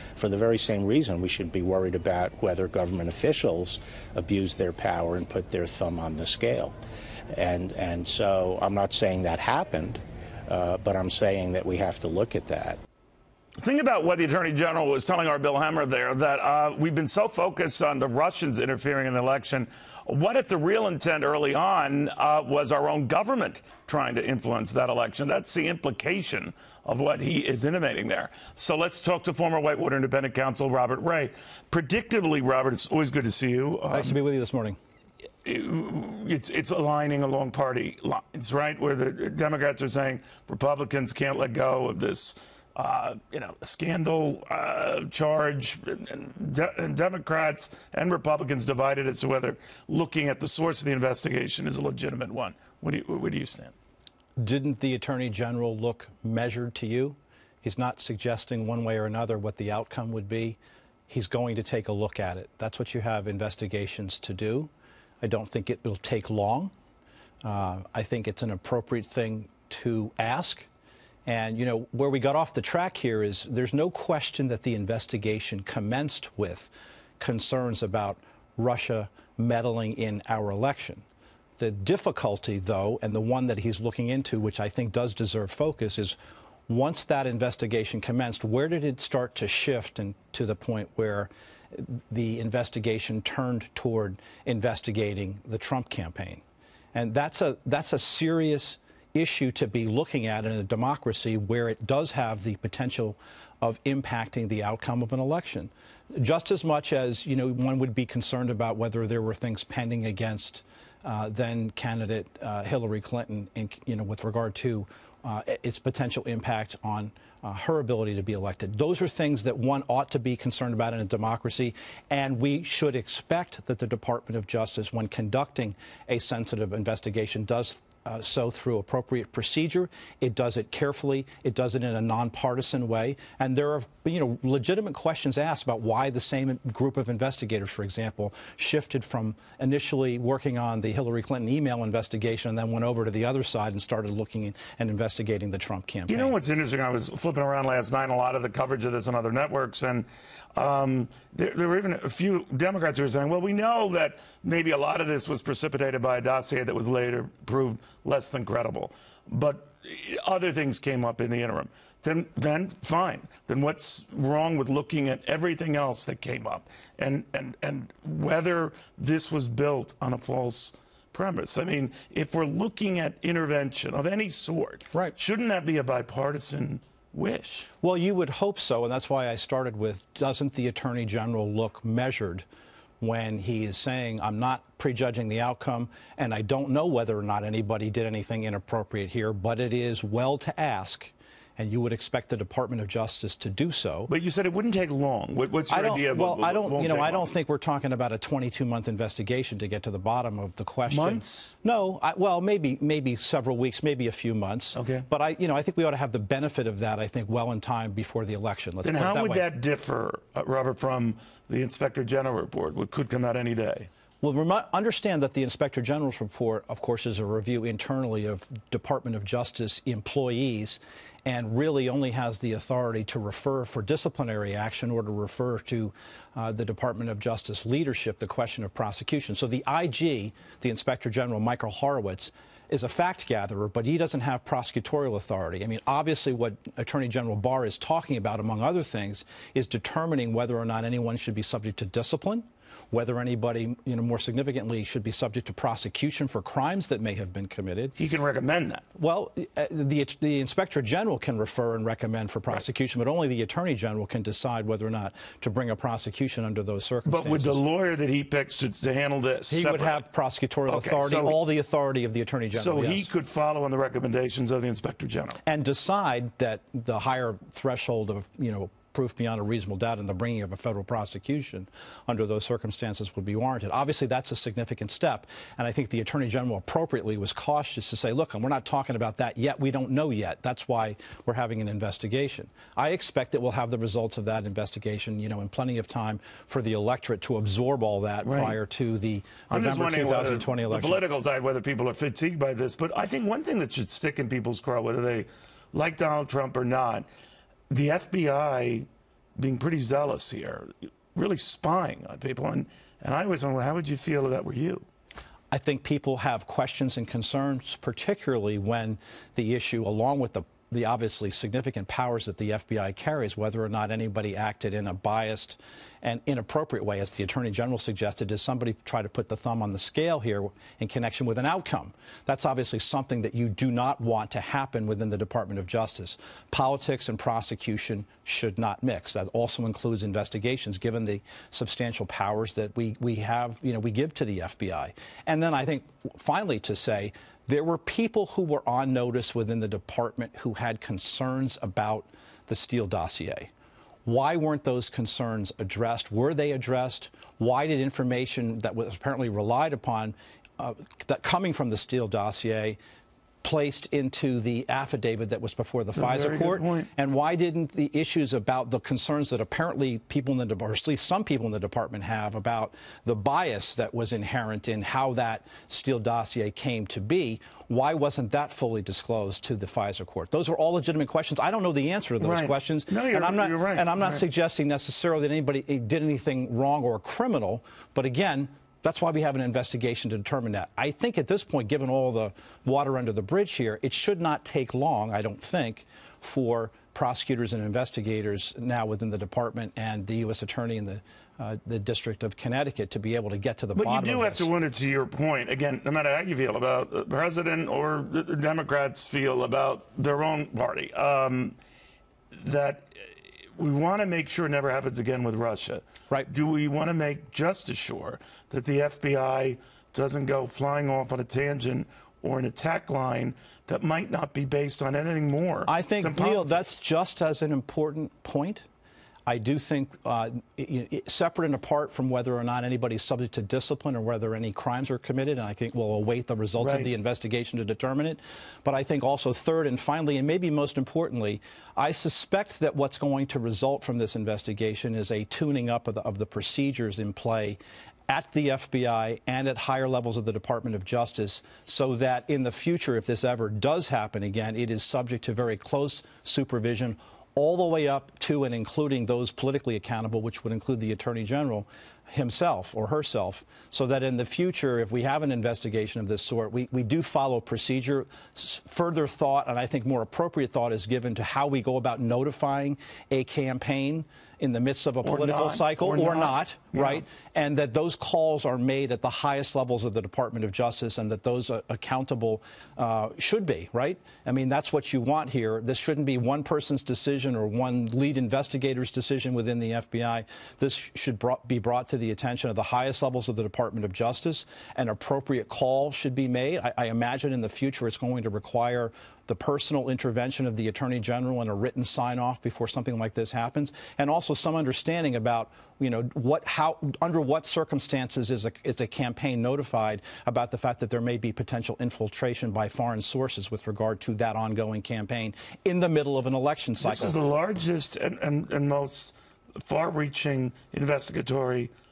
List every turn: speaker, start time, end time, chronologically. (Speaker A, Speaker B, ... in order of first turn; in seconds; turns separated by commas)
Speaker A: 0.1-6.7, Speaker A: 7.3-12.8, Speaker B: 13.6-34.2, Speaker C: 33.9-34.8, Speaker B: 35.4-53.7, Speaker C: 54.4-64.7, Speaker C: 65.2-66.7, Speaker C: 67.4-70.7, Speaker C: 71.2-81.0, Speaker C: 81.6-86.2, Speaker C: 86.7-96.4, Speaker C: 96.9-146.4, Speaker B: 146.1-177.7, Speaker C: 177.8-182.4, Speaker C: 183.0-194.1, Speaker B: 194.1-197.3, Speaker C: 195.7-209.4, Speaker B: 200.9-201.5, Speaker B: 204.7-205.1, Speaker B: 208.8-213.9, Speaker C: 214.2-247.9, Speaker B: 247.9-248.8, Speaker C: 248.9-257.6, Speaker B: 257.0-260.0, Speaker C: 259.5-263.1, Speaker B: 260.7-261.4, Speaker B: 262.5-265.4, Speaker C: 265.4-291.0, Speaker B: 288.2-288.6, Speaker B: 289.5-297.1, Speaker B: 297.7-298.9, Speaker B: 299.4-304.8, Speaker C: 305.5-343.5, Speaker C: 344.1-352.8, Speaker C: 353.4-394.5, Speaker B: 355.9-356.9, Speaker B: 372.2-374.2, Speaker B: 393.7-401.6, Speaker B: 402.3-402.9, Speaker B: 403.5-416.6, Speaker C: 415.6-418.6, Speaker C: 419.2-507.2, Speaker B: 426.6-426.9, Speaker B: 465.0-467.0, Speaker B: 506.8-511.7